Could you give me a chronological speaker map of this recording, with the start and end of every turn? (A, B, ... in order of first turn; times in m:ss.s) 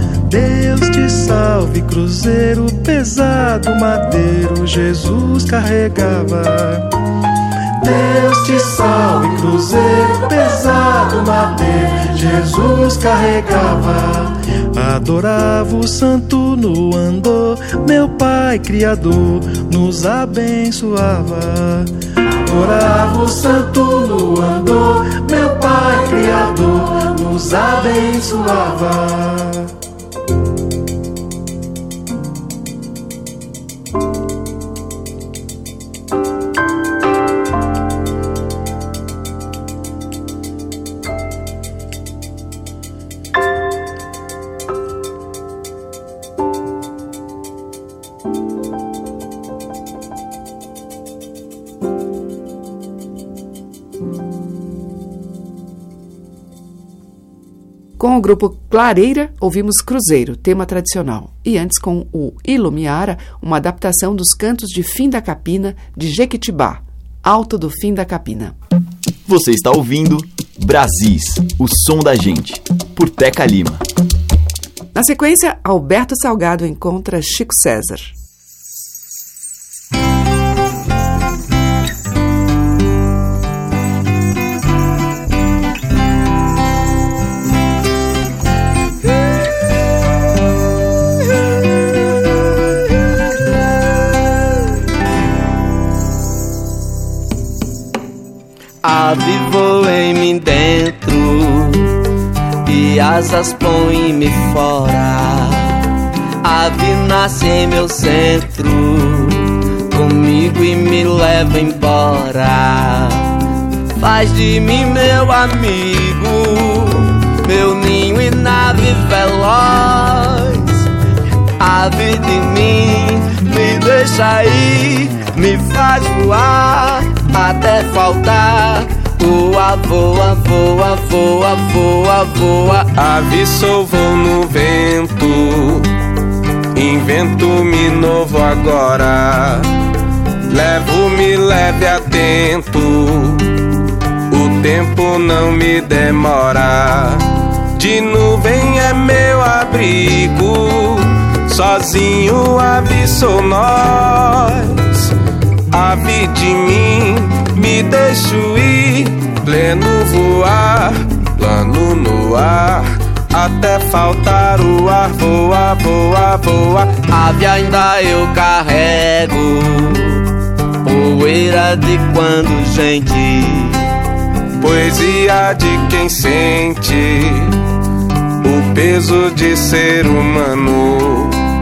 0:00.3-0:06.9 A
0:07.8-0:21.9 A
0:22.4-0:29.7 A
0:58.0-1:08.6 B
1:09.3-1:13.8 C
1:14.9-1:18.1 B
1:38.8-1:41.9 D
1:42.6-1:45.8 D
1:46.4-1:53.3 D
1:54.0-2:00.8 D
2:01.6-2:12.9 D
2:12.9-2:15.9 E
2:16.8-2:19.7 E
2:20.5-2:23.5 E
2:24.3-2:27.2 E
2:27.8-2:35.0 E
2:35.7-2:47.0 E
2:47.0-2:50.2 D
2:50.8-2:53.8 D
2:54.6-2:57.6 E
2:58.4-3:01.4 E